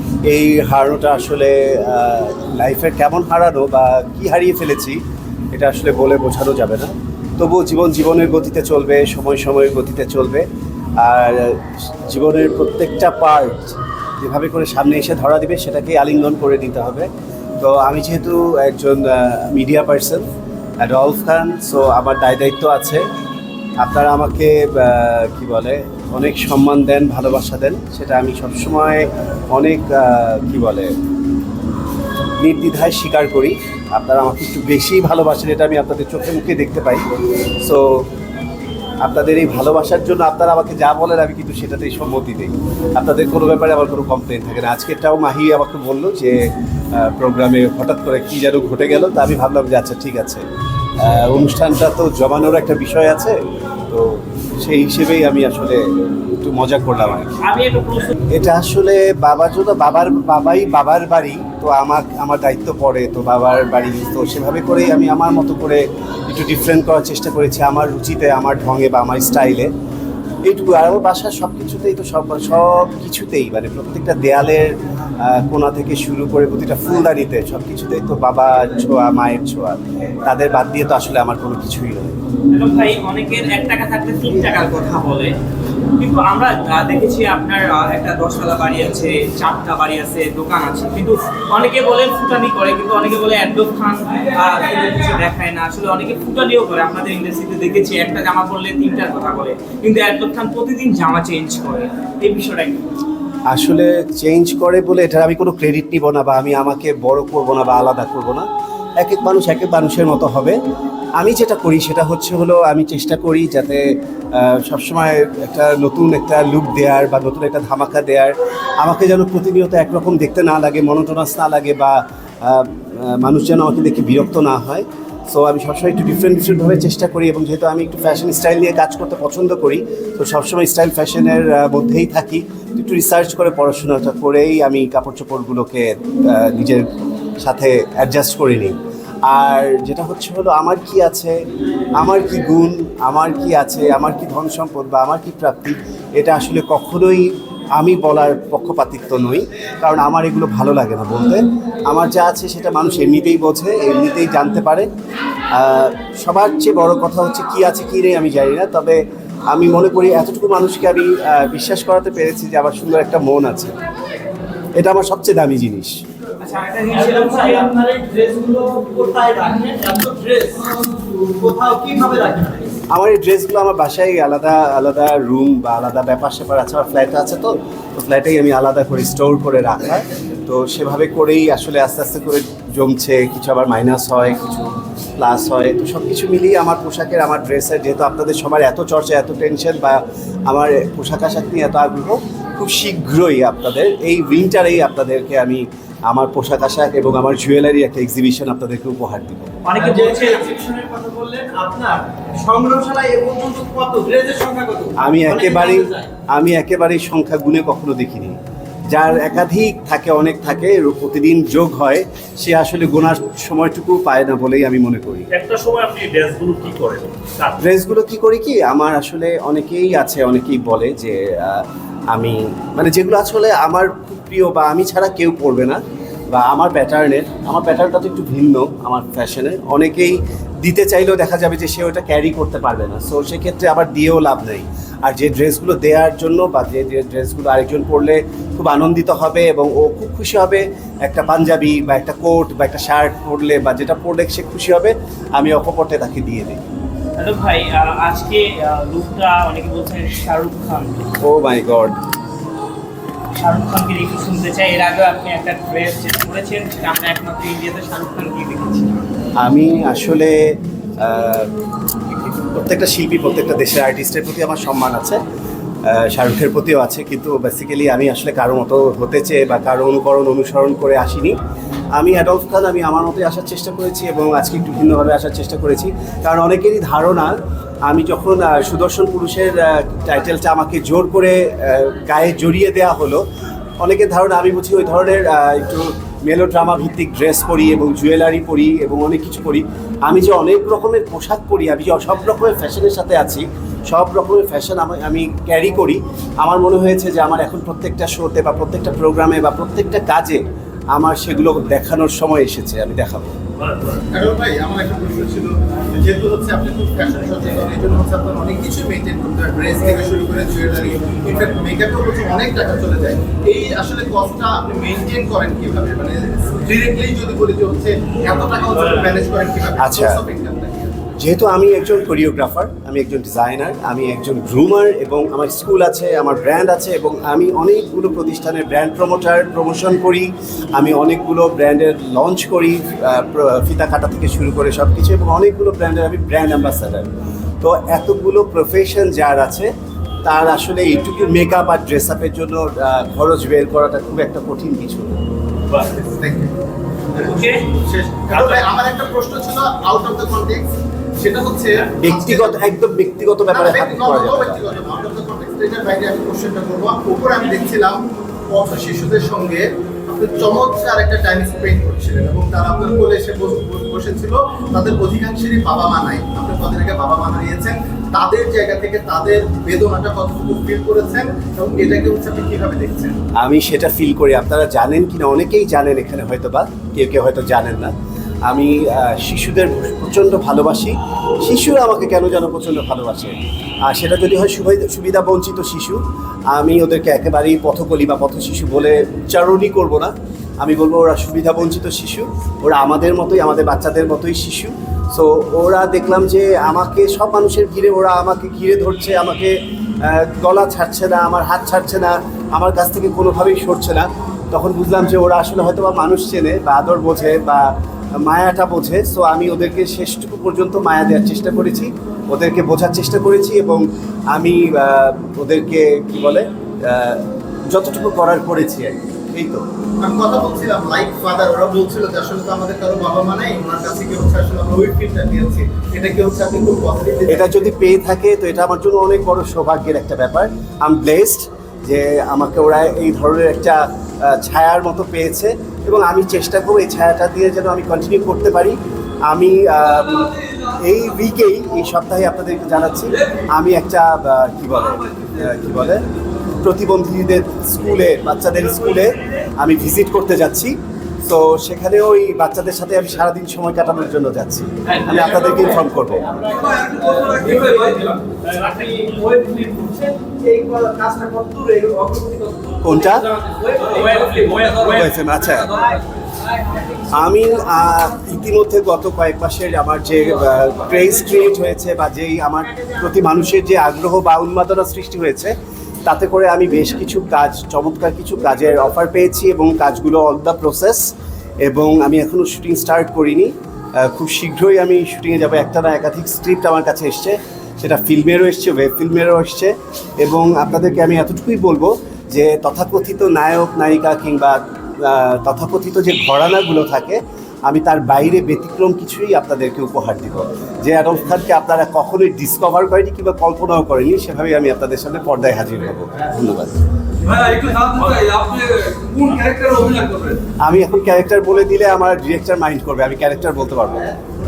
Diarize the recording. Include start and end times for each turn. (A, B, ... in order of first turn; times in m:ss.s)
0:00.2-0:05.0 A
0:05.5-0:10.4 A
0:11.0-0:17.1 A
0:17.6-0:20.3 A
0:20.8-0:23.0 A
0:23.8-0:30.9 A
0:32.4-0:37.0 A
0:37.6-0:38.0 A
0:39.0-0:50.4 A
0:51.0-0:57.4 A
0:57.4-0:58.1 B
0:58.3-1:09.7 A
1:10.4-1:22.2 A
1:22.5-1:25.3 B
1:26.0-1:43.0 B
1:43.5-1:48.5 A
1:49.0-1:50.6 A
1:51.2-2:16.9 A
2:17.4-2:21.4 A
2:22.0-2:34.9 A
2:35.5-2:39.0 A
2:39.5-2:43.8 A
2:44.8-2:46.0 A
2:46.4-2:47.7 B
2:46.9-2:52.8 C
2:52.9-3:19.6 A
3:19.6-3:20.5 B
3:19.7-3:26.1 C
3:25.0-3:28.4 A
3:28.9-3:35.3 A
3:35.3-3:37.6 D
3:35.7-3:37.0 C
3:37.6-3:45.8 A
3:46.3-4:06.6 A
4:07.2-4:11.1 B
4:11.2-4:11.9 A
4:13.4-4:19.0 B
4:19.4-4:21.5 A
4:22.1-4:25.2 A
4:25.8-4:31.4 A
4:32.0-4:37.3 A
4:37.9-4:43.2 A
4:43.8-5:03.4 A
5:04.0-5:21.1 E
5:19.8-5:20.2 A
5:21.2-5:37.1 A
5:37.6-5:39.7 A
5:40.2-5:45.2 A
5:45.9-5:46.5 E
5:47.2-5:50.6 E
5:47.2-5:47.6 B
5:51.2-5:52.6 E
5:52.0-5:54.6 A
5:53.5-5:58.0 E
5:58.5-6:13.2 E
6:13.4-6:17.9 A
6:18.5-6:59.6 A
7:00.0-7:07.5 E
7:07.3-7:18.8 A
7:19.3-7:26.0 A
7:26.6-7:36.3 A
7:36.2-7:46.0 C
7:37.4-7:37.8 B
7:38.4-7:39.3 B
7:42.8-7:43.3 A
7:43.7-7:45.2 B
7:44.7-7:45.8 A
7:47.1-7:55.5 A
7:56.0-8:01.1 A
8:01.6-8:26.8 A
8:27.2-8:30.4 C
8:30.6-8:34.1 A